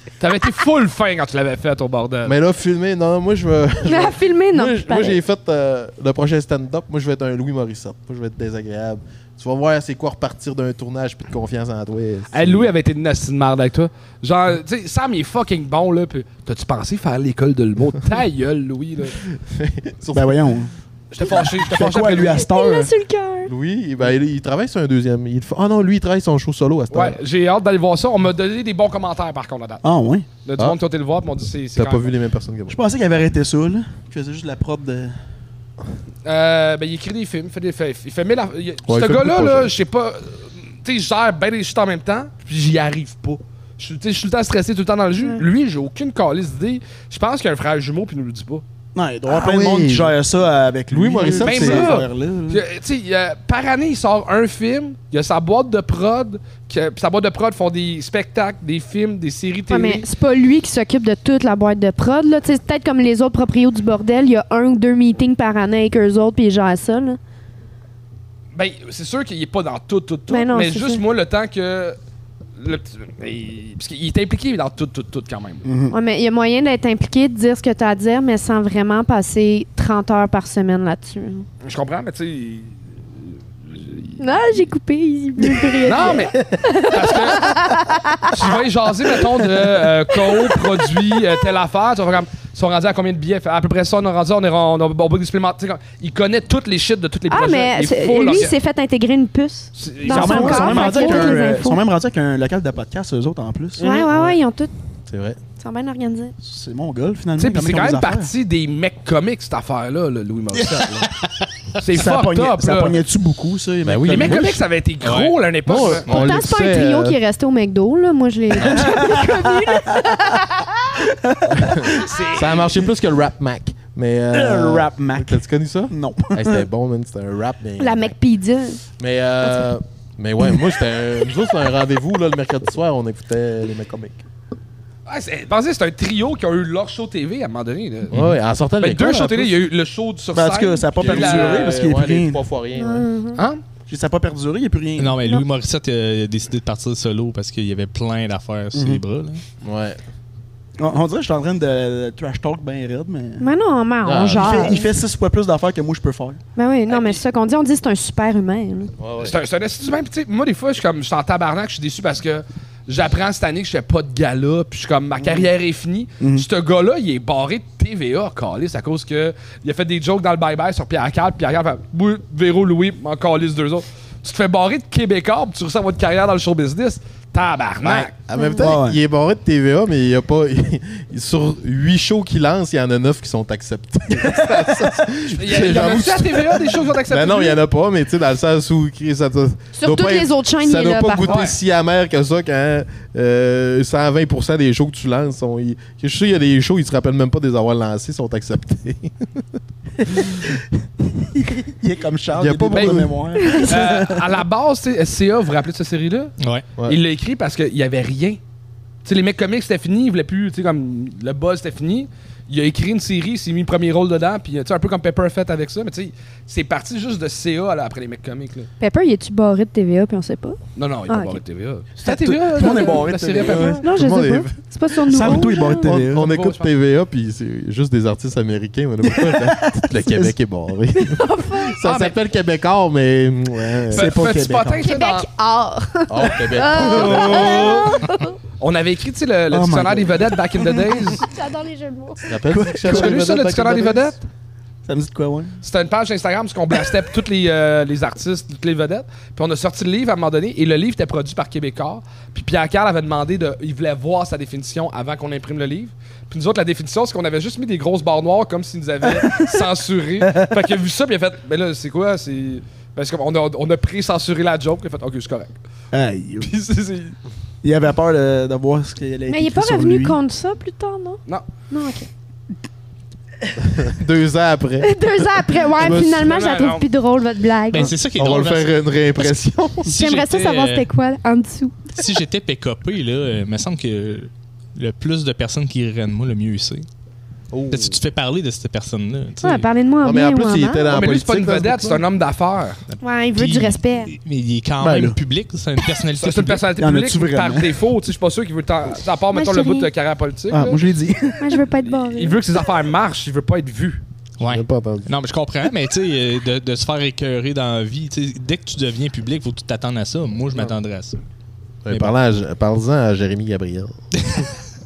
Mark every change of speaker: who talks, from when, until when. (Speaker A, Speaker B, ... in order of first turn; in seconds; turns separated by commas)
Speaker A: 0.2-2.4, Speaker B: 2.2-12.7, Speaker C: 3.9-5.2, Speaker A: 12.3-19.2, Speaker B: 19.3-20.4, Speaker D: 20.1-22.9, Speaker A: 21.1-22.4, Speaker C: 22.3-23.5, Speaker B: 23.5-27.2, Speaker A: 26.9-29.8, Speaker D: 29.8-30.3, Speaker A: 30.4-32.1, Speaker B: 31.8-32.8, Speaker D: 32.7-35.2, Speaker A: 36.2-48.6, Speaker B: 38.9-39.7, Speaker D: 49.0-52.6, Speaker B: 49.3-50.2, Speaker B: 50.9-52.0, Speaker A: 51.4-60.1, Speaker C: 59.7-67.2, Speaker A: 68.5-72.0, Speaker C: 70.3-71.0, Speaker A: 72.6-75.7, Speaker D: 75.7-76.0, Speaker C: 75.9-81.5, Speaker A: 81.6-84.2, Speaker C: 84.2-88.6, Speaker D: 85.5-85.7, Speaker A: 85.8-87.5, Speaker A: 88.3-98.5, Speaker C: 90.3-90.6, Speaker C: 97.3-101.8, Speaker A: 99.8-101.4, Speaker D: 100.1-103.9, Speaker A: 103.8-104.4, Speaker C: 103.8-104.7, Speaker B: 105.1-105.4, Speaker C: 105.6-106.3, Speaker D: 106.4-108.3, Speaker A: 107.4-111.1, Speaker E: 110.5-111.3, Speaker A: 111.8-113.0, Speaker D: 111.9-114.6, Speaker B: 113.8-114.6, Speaker A: 114.1-116.1, Speaker E: 115.0-116.2, Speaker B: 115.7-117.2, Speaker C: 116.1-120.8, Speaker D: 118.6-120.2, Speaker D: 120.9-122.1, Speaker B: 121.5-128.2, Speaker A: 122.0-122.8, Speaker D: 124.3-126.7, Speaker C: 127.8-128.8, Speaker B: 129.0-134.2, Speaker A: 135.1-138.2, Speaker B: 138.1-139.6, Speaker A: 138.8-141.8, Speaker D: 140.3-142.4, Speaker B: 141.0-143.1, Speaker C: 142.8-143.4, Speaker D: 143.9-145.2, Speaker E: 145.0-149.4, Speaker D: 148.7-149.0, Speaker B: 149.6-150.0, Speaker D: 150.8-153.5, Speaker C: 153.4-154.9, Speaker B: 154.0-154.8, Speaker D: 154.4-156.4, Speaker C: 156.6-158.9, Speaker A: 156.9-157.2, Speaker B: 159.0-159.4, Speaker A: 159.2-178.1, Speaker D: 165.2-165.5, Speaker D: 166.2-166.5, Speaker B: 177.8-199.4, Speaker C: 178.4-178.6, Speaker D: 178.6-179.0, Speaker D: 184.2-185.8, Speaker A: 185.4-187.6, Speaker C: 189.8-191.4, Speaker A: 191.2-191.6, Speaker D: 200.0-200.6, Speaker D: 201.2-204.3, Speaker B: 202.3-203.1, Speaker A: 202.7-203.0, Speaker C: 203.4-203.7, Speaker A: 203.6-208.4, Speaker E: 206.4-206.7, Speaker A: 209.1-218.7, Speaker C: 218.8-221.4, Speaker A: 220.8-223.8, Speaker D: 222.0-223.8, Speaker B: 223.4-224.6, Speaker C: 223.8-225.9, Speaker D: 225.0-226.3, Speaker B: 225.2-234.1, Speaker A: 226.1-226.7, Speaker D: 229.1-230.3, Speaker C: 231.0-231.8, Speaker A: 231.8-232.2, Speaker D: 233.9-234.9, Speaker A: 233.9-235.3, Speaker C: 234.8-238.4, Speaker B: 236.1-237.8, Speaker D: 236.9-237.8, Speaker A: 237.0-237.8, Speaker A: 238.6-241.3, Speaker D: 239.5-240.9, Speaker C: 241.2-242.4, Speaker B: 242.2-244.2, Speaker D: 242.5-243.2, Speaker A: 242.9-244.2, Speaker D: 244.9-245.6, Speaker A: 245.6-265.6, Speaker D: 259.2-259.6, Speaker D: 260.2-260.5, Speaker D: 265.9-266.5, Speaker A: 266.4-267.2, Speaker D: 267.6-270.2, Speaker C: 269.3-272.1, Speaker B: 273.6-276.3, Speaker C: 274.8-277.9, Speaker A: 275.9-276.8, Speaker E: 277.7-280.9, Speaker B: 278.1-280.0, Speaker C: 279.9-281.9, Speaker E: 281.9-286.9, Speaker B: 287.5-288.0, Speaker E: 287.7-289.7, Speaker C: 289.4-290.9, Speaker B: 290.0-292.1, Speaker A: 290.9-292.8, Speaker E: 292.9-296.6, Speaker C: 293.0-294.1, Speaker D: 294.8-295.1, Speaker A: 296.2-300.8, Speaker D: 296.8-297.7, Speaker C: 299.3-299.9, Speaker D: 300.5-301.6, Speaker C: 301.4-302.4, Speaker A: 301.9-304.0, Speaker E: 304.4-311.2, Speaker B: 304.4-305.1, Speaker B: 311.9-314.0